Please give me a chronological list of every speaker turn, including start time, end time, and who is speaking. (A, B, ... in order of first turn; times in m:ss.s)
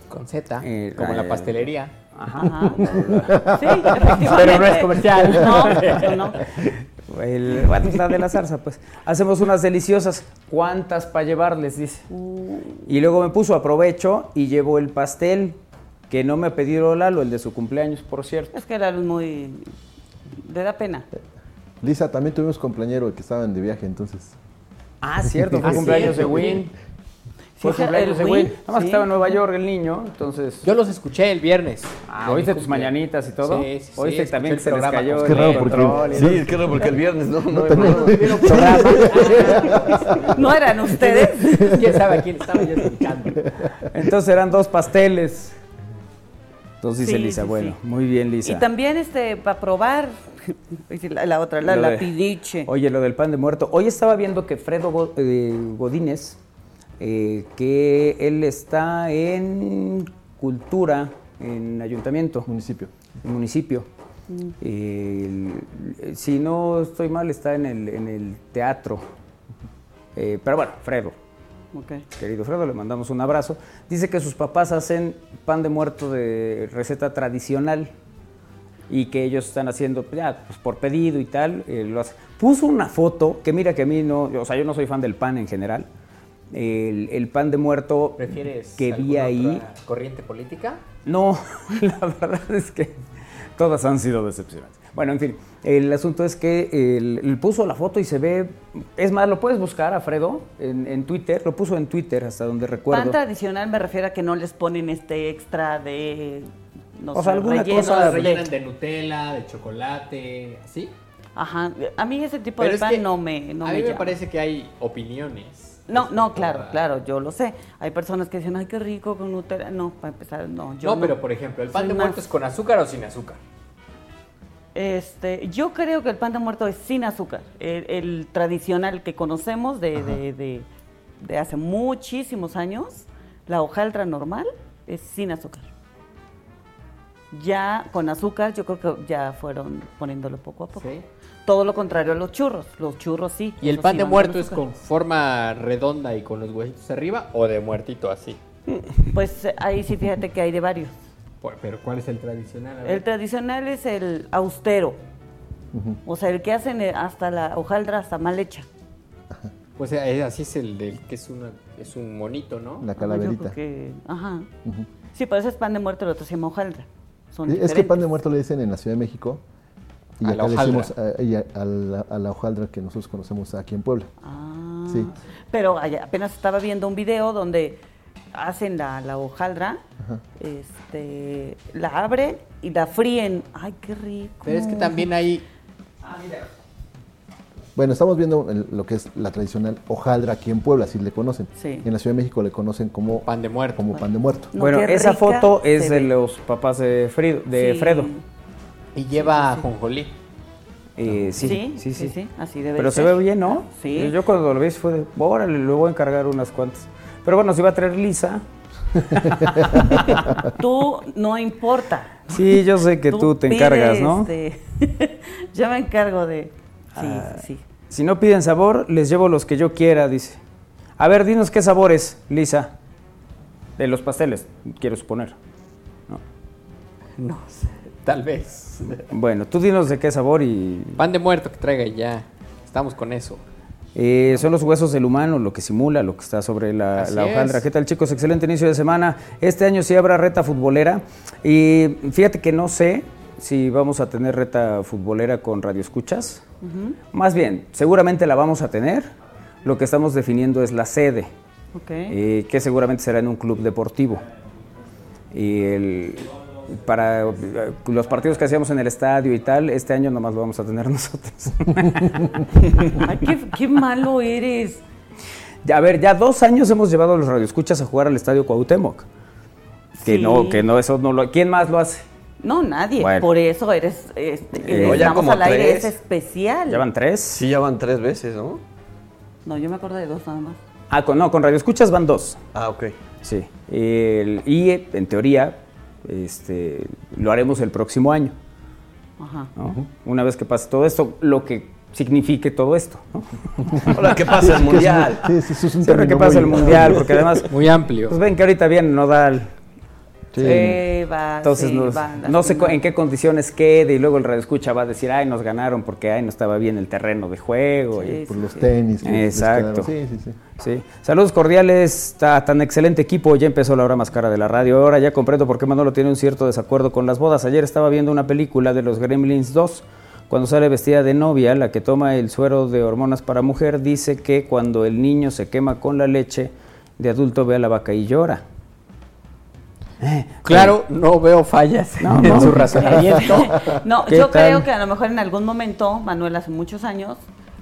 0:00.1-0:01.9 A
0:00.6-0:03.4 B
0:02.4-0:02.9 C
0:02.9-0:03.8 D
0:03.5-0:06.4 C
0:04.2-0:06.4 A
0:07.1-0:12.1 B
0:12.1-0:12.9 C
0:12.9-0:15.6 B
0:16.1-0:18.5 B
0:18.5-0:19.7 C
0:20.3-0:21.1 C
0:21.8-0:24.4 D
0:25.0-0:26.7 B
0:25.4-0:26.6 D
0:25.6-0:26.7 A
0:27.6-0:29.1 C
0:27.6-0:30.7 B
0:30.6-0:36.3 A
0:32.1-0:36.4 B
0:35.2-0:36.8 D
0:36.1-0:38.6 E
0:37.5-0:40.4 D
0:37.8-0:40.2 A
0:38.4-0:39.3 B
0:40.2-0:41.8 C
0:41.1-0:43.4 A
0:41.4-0:42.2 D
0:43.6-0:43.8 D
0:43.9-0:45.5 B
0:46.8-0:48.6 B
0:47.0-0:47.8 C
0:48.4-0:52.7 C
0:51.6-0:52.1 B
0:52.6-0:56.4 B
0:57.0-1:02.5 B
1:02.5-1:02.9 D
1:03.2-1:03.9 B
1:04.3-1:04.5 C
1:04.6-1:09.0 B
1:10.2-1:11.1 B
1:11.7-1:12.0 C
1:12.2-1:17.9 B
1:18.9-1:25.9 B
1:26.5-1:29.6 B
1:28.2-1:30.8 A
1:31.0-1:33.0 B
1:33.6-1:43.2 B
1:42.9-1:48.4 C
1:47.1-1:48.3 B
1:47.6-1:50.9 A
1:51.4-1:54.1 C
1:52.6-1:53.0 A
1:53.6-1:56.8 A
1:55.9-2:01.2 C
2:00.8-2:03.4 A
2:01.7-2:02.2 C
2:04.7-2:10.6 C
2:11.2-2:15.7 C
2:17.3-2:20.9 C
2:20.8-2:21.0 A
2:21.4-2:24.6 C
2:23.6-2:28.4 A
2:29.1-2:31.0 C
2:31.4-2:33.0 A
2:32.8-2:35.0 C
2:35.7-2:36.0 D
2:36.0-2:38.7 C
2:39.8-2:42.9 A
2:42.8-2:43.5 D
2:43.0-2:44.5 C
2:45.1-2:48.1 C
2:47.5-2:49.4 D
2:50.2-2:54.1 D
2:50.2-2:50.9 A
2:54.2-2:57.8 C
2:58.3-2:59.8 C
3:00.4-3:05.0 C
3:04.4-3:05.4 A
3:06.1-3:06.4 B
3:07.8-3:14.5 D
3:11.6-3:11.8 C
3:13.2-3:13.8 A
3:14.5-3:16.1 C
3:14.6-3:18.1 B
3:17.5-3:18.2 C
3:18.9-3:20.1 A
3:19.1-3:19.7 C
3:21.0-3:22.1 B
3:21.4-3:24.1 C
3:22.8-3:28.4 B
3:29.0-3:30.0 B
3:29.8-3:32.4 C
3:32.3-3:34.3 B
3:33.1-3:37.6 C
3:37.0-3:40.4 B
3:41.0-3:42.7 B
3:43.8-3:45.4 B
3:47.2-3:49.0 A
3:49.0-3:51.0 B
3:51.0-3:53.4 A
3:53.9-4:06.4 B
3:56.9-3:57.6 A
4:06.6-4:07.0 C
4:07.1-4:09.1 B
4:09.6-4:11.3 B
4:11.7-4:12.1 C
4:12.1-4:14.2 B
4:15.3-4:23.0 B
4:22.9-4:24.8 C
4:25.6-4:29.0 B
4:30.0-4:30.6 C
4:30.0-4:32.0 B
4:32.4-4:36.8 C
4:33.0-4:33.3 B
4:34.6-4:35.2 B
4:34.7-4:35.9 E
4:36.7-4:37.4 B
4:37.3-4:38.6 E
4:39.4-4:40.6 C
4:40.9-4:42.4 B
4:42.5-4:42.9 E
4:43.2-4:48.3 B
4:49.2-4:49.5 C
4:49.6-4:53.9 B
4:53.9-4:55.2 E
4:54.2-4:57.2 D
4:55.8-4:57.5 B
4:57.5-4:58.2 A
4:58.1-4:59.5 B
5:00.3-5:00.7 D
5:00.4-5:00.8 B
5:00.4-5:02.8 C
5:01.4-5:08.2 B
5:07.9-5:08.7 C
5:08.2-5:10.4 D
5:09.0-5:09.9 B
5:10.6-5:28.4 B
5:30.0-5:30.7 B
5:30.4-5:33.8 A
5:32.0-5:33.0 B
5:32.2-5:32.5 D
5:32.8-5:37.2 C
5:34.1-5:34.6 B